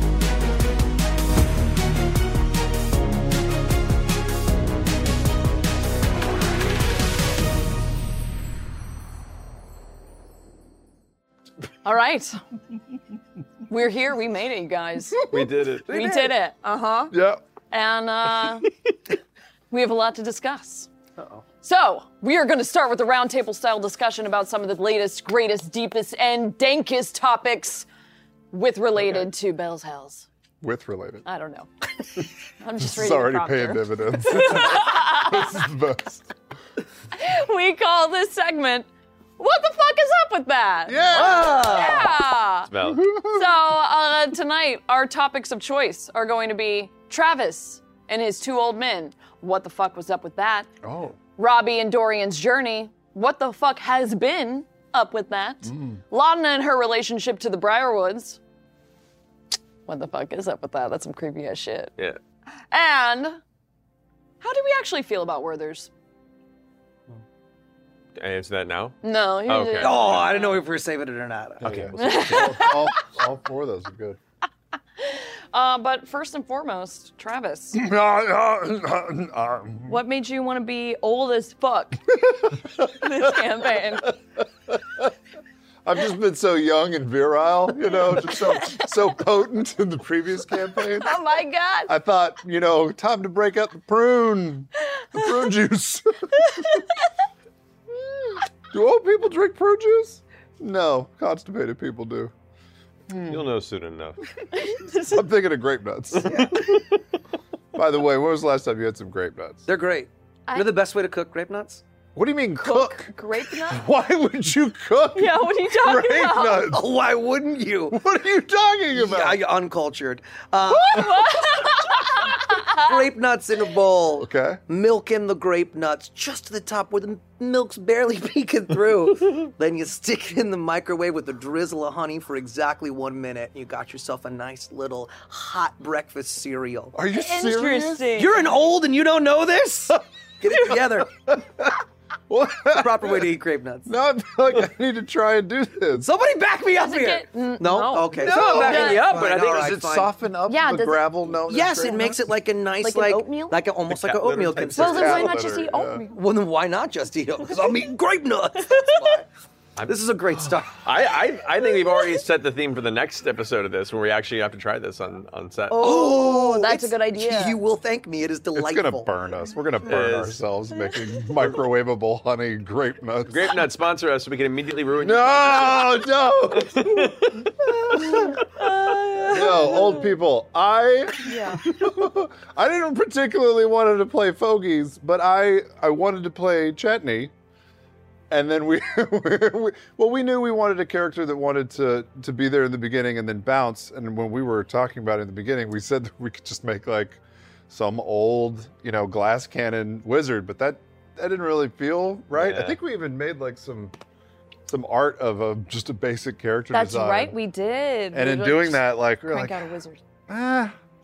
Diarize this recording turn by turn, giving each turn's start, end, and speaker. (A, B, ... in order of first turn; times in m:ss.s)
0:11.8-0:12.4 A
0:13.7-0:15.2 A
0:15.3-0:15.8 B
0:15.9-0:16.3 C
0:15.9-0:17.1 A
0:17.1-0:17.4 D
0:17.7-0:18.7 A
0:19.7-0:20.9 A
0:21.2-0:21.4 C
0:21.6-0:27.9 A
0:28.5-0:30.3 A
0:30.6-0:31.3 D
0:31.2-0:35.6 A
0:32.8-0:36.3 D
0:37.2-0:38.9 A
0:39.4-0:42.7 A
0:40.9-0:42.0 D
0:41.1-0:42.1 C
0:42.7-0:43.1 B
0:42.8-0:43.6 D
0:43.3-0:50.7 A
0:50.8-0:51.2 D
0:51.4-0:58.4 A
0:55.7-0:56.0 D
0:59.9-1:01.9 A
1:02.7-1:03.4 A
1:04.4-1:05.9 A
1:08.2-1:10.3 B
1:09.0-1:10.6 A
1:09.8-1:12.1 C
1:11.6-1:14.2 D
1:11.7-1:11.9 B
1:12.0-1:13.0 A
1:15.0-1:17.8 A
1:17.7-1:20.0 D
1:19.9-1:22.0 A
1:22.3-1:24.1 D
1:22.8-1:24.1 A
1:24.7-1:25.1 D
1:25.8-1:31.2 D
1:28.3-1:28.9 A
1:31.0-1:31.9 A
1:31.9-1:36.6 D
1:38.0-1:42.3 D
1:43.1-1:43.4 D
1:43.2-1:44.2 B
1:44.6-1:45.1 A
1:44.9-1:46.8 D
1:46.2-1:46.8 C
1:47.7-1:49.7 D
1:49.7-1:51.8 C
1:52.2-1:56.9 D
1:52.6-1:53.8 A
1:55.2-1:56.8 A
1:56.6-1:58.0 C
1:57.9-1:59.4 D
1:59.0-2:01.3 C
2:00.7-2:02.9 A
2:02.7-2:17.0 C
2:04.2-2:04.6 D
2:17.0-2:18.2 D
2:17.1-2:18.5 A
2:18.1-2:21.2 C
2:20.7-2:21.7 D
2:22.3-2:23.3 D
2:22.7-2:23.9 C
2:23.9-2:26.1 D
2:26.0-2:30.1 C
2:26.8-2:29.0 A
2:28.2-2:30.0 B
2:28.2-2:32.2 D
2:30.5-2:32.1 A
2:31.5-2:35.4 C
2:32.8-2:33.6 A
2:33.9-2:35.0 B
2:34.8-2:36.0 D
2:34.8-2:36.1 A
2:36.0-2:39.3 C
2:39.9-2:40.8 C
2:40.8-2:46.1 B
2:45.7-2:49.1 C
2:45.8-2:47.6 A
2:48.5-2:53.6 D
2:49.8-2:50.4 B
2:53.3-2:57.5 B
2:55.0-2:58.4 D
2:58.0-3:00.1 A
2:59.3-3:07.3 D
3:01.3-3:01.6 A
3:08.3-3:24.0 D
3:22.3-3:22.8 B
3:24.7-3:27.4 D
3:26.7-3:30.0 A
3:28.1-3:29.7 D
3:30.3-3:30.8 D